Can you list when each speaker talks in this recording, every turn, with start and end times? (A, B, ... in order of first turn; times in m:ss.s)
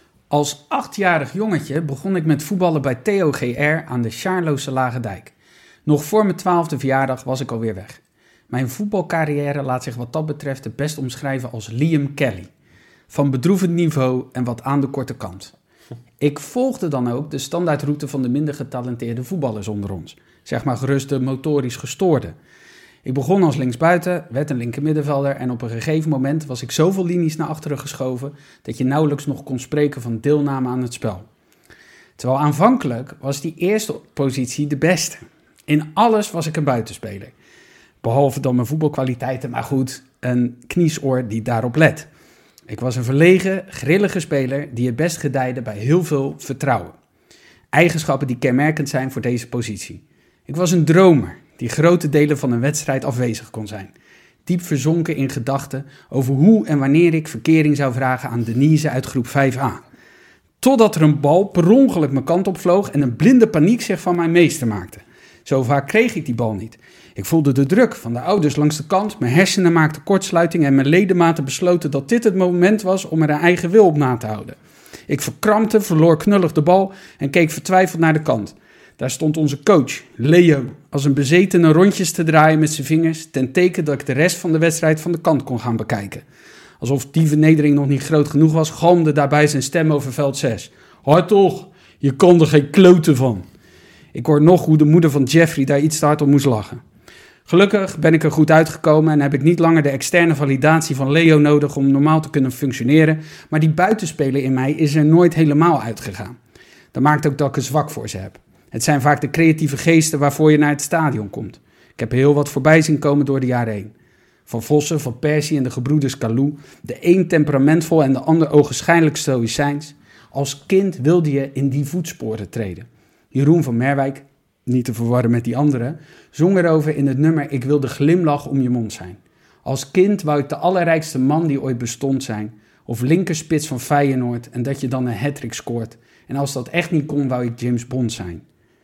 0:00.3-0:05.3 A
0:05.8-0:12.5 A
0:13.1-0:15.5 A
0:16.2-0:22.4 A
0:23.0-0:31.3 A
0:32.2-0:37.3 A
0:38.0-0:42.1 A
0:42.7-0:47.0 A
0:47.7-0:53.9 A
0:54.4-0:59.8 A
1:00.6-1:14.6 A
1:15.1-1:26.2 A
1:26.8-1:33.5 A
1:34.1-1:36.8 A
1:37.5-1:46.4 A
1:46.9-1:53.9 A
1:54.5-2:18.4 A